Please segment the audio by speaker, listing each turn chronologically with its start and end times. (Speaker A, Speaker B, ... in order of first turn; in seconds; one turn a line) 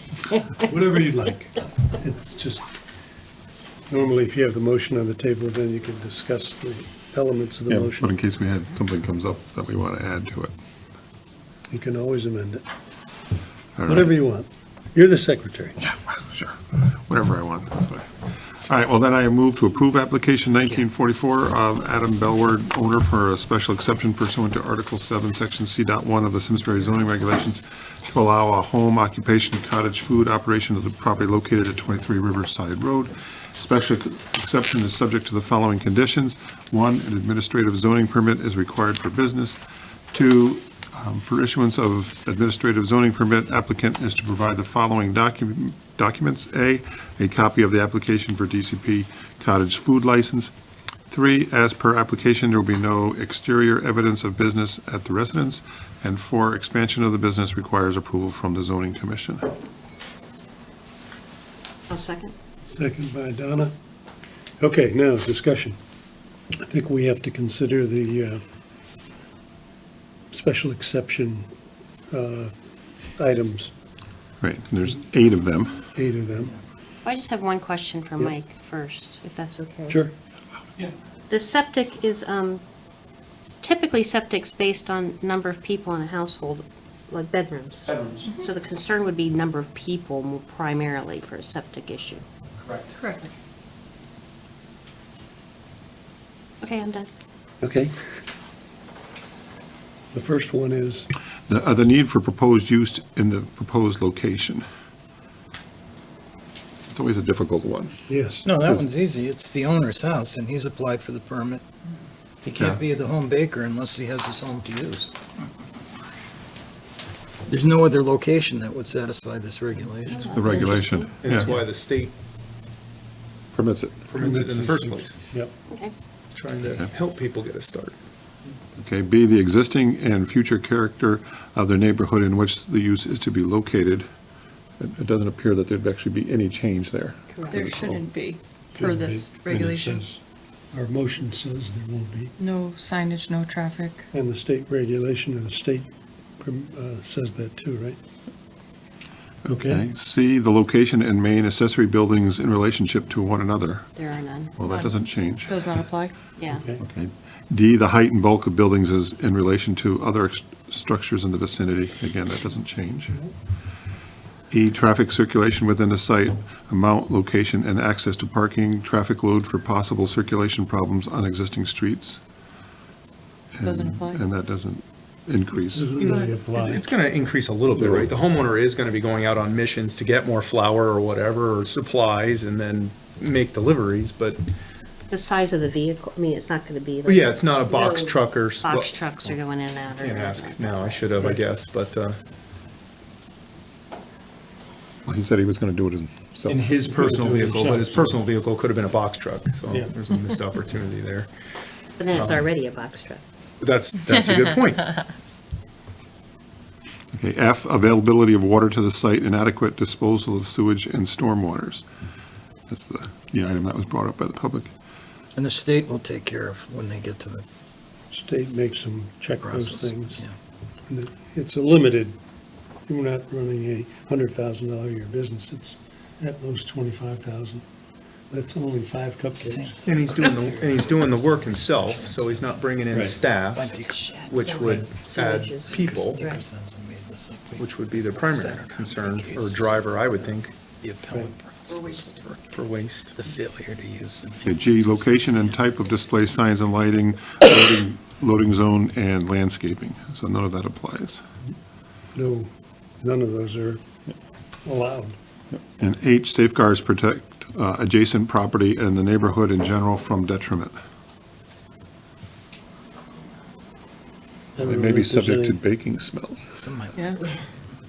Speaker A: 0.6-2.7
Speaker A: 3.9-8.1
Speaker B: 7.7-10.5
Speaker A: 11.7-12.7
Speaker B: 13.8-14.1
Speaker A: 13.9-15.8
Speaker B: 15.8-39.6
Speaker B: 40.1-50.5
Speaker B: 51.1-59.5
Speaker C: 61.9-62.3
Speaker A: 62.7-63.7
Speaker A: 64.6-65.8
Speaker A: 66.6-68.4
Speaker A: 70.3-71.5
Speaker A: 72.1-72.5
Speaker A: 73.2-73.7
Speaker B: 74.4-75.9
Speaker A: 76.0-76.6
Speaker C: 77.0-80.0
Speaker C: 81.3-82.6
Speaker C: 83.6-92.2
Speaker D: 88.2-88.5
Speaker D: 93.0-93.3
Speaker C: 96.6-97.1
Speaker A: 97.6-97.9
Speaker A: 100.1-101.1
Speaker B: 101.5-104.7
Speaker B: 106.9-108.0
Speaker A: 108.1-108.5
Speaker E: 108.5-111.6
Speaker E: 112.4-115.1
Speaker B: 112.5-112.8
Speaker E: 117.5-120.4
Speaker C: 120.1-121.1
Speaker B: 120.3-121.5
Speaker F: 121.2-122.1
Speaker B: 123.5-124.2
Speaker F: 124.1-125.2
Speaker A: 124.2-125.5
Speaker C: 125.7-125.9
Speaker F: 126.3-128.0
Speaker B: 128.8-134.1
Speaker B: 134.8-138.0
Speaker C: 137.3-137.6
Speaker D: 137.5-140.0
Speaker A: 138.8-140.2
Speaker A: 140.7-142.3
Speaker D: 142.4-144.1
Speaker A: 144.1-148.0
Speaker A: 149.4-149.8
Speaker B: 149.4-153.9
Speaker C: 154.0-154.5
Speaker B: 154.6-155.7
Speaker D: 154.6-156.2
Speaker C: 156.4-156.6
Speaker A: 156.5-156.8
Speaker B: 156.8-163.2
Speaker B: 164.5-172.2
Speaker B: 173.5-176.0
Speaker D: 173.6-174.2
Speaker A: 175.7-176.9
Speaker F: 176.0-184.5
Speaker D: 176.1-176.4
Speaker B: 177.8-178.1
Speaker C: 185.1-191.1
Speaker F: 187.1-189.0
Speaker F: 190.0-192.2
Speaker B: 195.1-196.6
Speaker F: 196.5-201.3
Speaker A: 196.8-198.2
Speaker A: 199.7-199.9
Speaker C: 202.0-203.2
Speaker F: 202.1-202.4
Speaker F: 203.6-205.0
Speaker B: 207.1-211.8
Speaker B: 212.7-214.7
Speaker E: 215.4-217.4
Speaker A: 218.1-220.2
Speaker E: 219.4-220.3
Speaker A: 220.9-222.2
Speaker A: 222.9-227.6
Speaker A: 228.3-229.8
Speaker E: 229.3-234.9
Speaker F: 229.8-236.3
Speaker A: 232.9-233.2
Speaker C: 233.9-236.4
Speaker E: 235.7-242.5
Speaker F: 237.6-240.6
Speaker F: 242.5-243.2
Speaker E: 243.2-246.0
Speaker B: 244.4-251.2
Speaker A: 252.1-252.5
Speaker A: 253.0-253.8
Speaker A: 254.6-255.2
Speaker B: 255.5-260.8
Speaker A: 264.6-265.6
Speaker B: 264.6-266.6
Speaker E: 266.6-267.2
Speaker D: 266.9-267.2